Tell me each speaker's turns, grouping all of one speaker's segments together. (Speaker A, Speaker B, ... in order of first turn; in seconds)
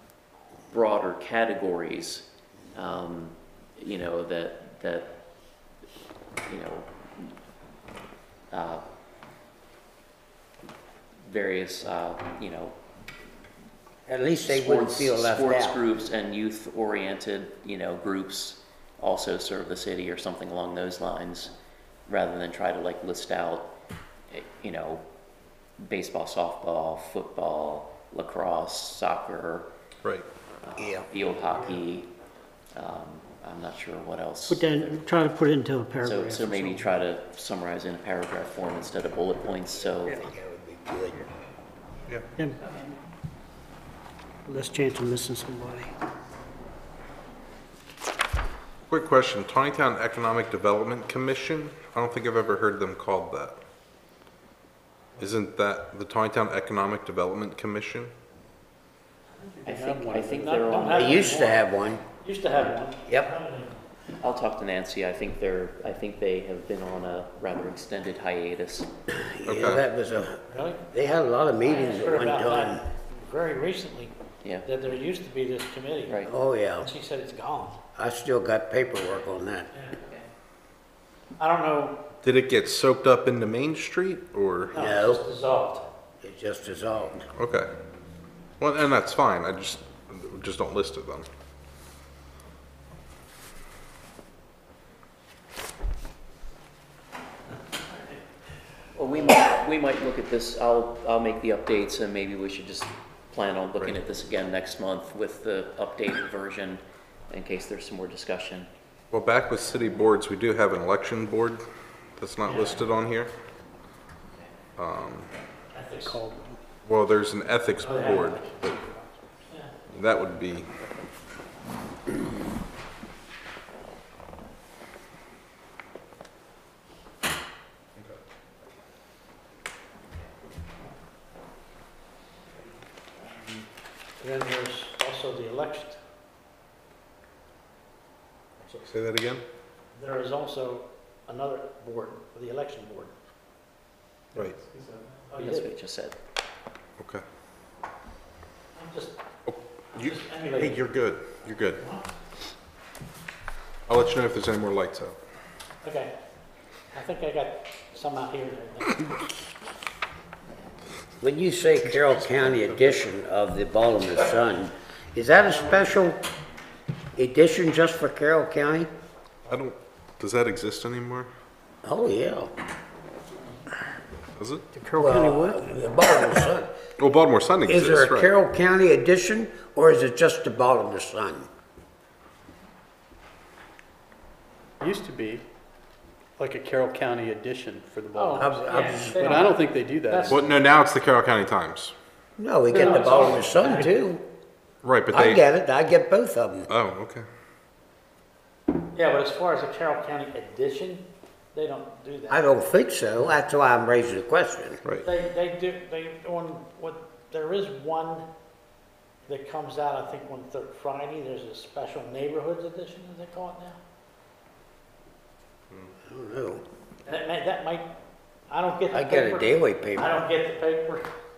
Speaker A: 0.7-5.2, 6.5-7.3, 8.5-8.8, 11.2-12.8, 14.4-21.5, 22.1-23.7, 24.3-25.0, 25.8-29.7, 30.6-32.1, 32.7-35.1, 36.0-40.3, 59.6-61.4, 64.2-68.9, 80.0-80.2, 98.9-108.7, 145.4-146.2
Speaker B: 14.1-15.8, 30.8-31.1, 39.8-41.3, 60.9-62.0, 63.1-63.3, 69.2-72.8, 76.2-76.9, 78.0-79.7, 84.7-85.2, 86.2-87.3, 161.2-166.2, 167.2-168.9, 171.8-172.5, 175.0-176.7, 177.7-181.5, 188.3-189.5, 192.4-194.2, 195.1-196.7, 202.3-204.8, 216.0-216.6, 218.9-220.2
Speaker C: 34.5-36.9, 44.5-45.9, 116.0-116.6, 174.7-175.6
Speaker D: 48.9-53.6, 55.2-58.1, 69.5-69.8, 82.2-84.7, 87.4-87.7, 88.6-91.3, 109.1-111.6, 112.2-113.3, 114.8-115.3, 116.8-118.8, 119.9-120.7, 138.8-139.4, 149.5-151.8, 153.9-155.2, 162.3-162.9, 169.5-171.3, 174.4-174.6, 177.0-178.3, 190.3-191.9, 194.8-195.4, 196.7-197.2
Speaker E: 59.4-63.7, 70.5-70.8, 71.6-74.1, 74.7-76.3, 76.8-77.8, 81.4-82.0, 84.7-85.9, 112.5-112.7, 115.7-116.2, 117.8-119.7, 133.3-133.6, 134.2-136.0, 138.6-138.9, 139.9-143.1, 145.3-145.7, 148.8-149.2, 149.9-150.8, 151.8-152.1, 155.8-156.1, 156.9-159.2, 188.1-190.5, 192.7-193.9, 198.9-202.4, 205.0-208.2, 209.3-213.8, 217.1-217.9, 218.5-221.1
Speaker F: 144.4-145.2, 184.8-185.4, 186.4-190.4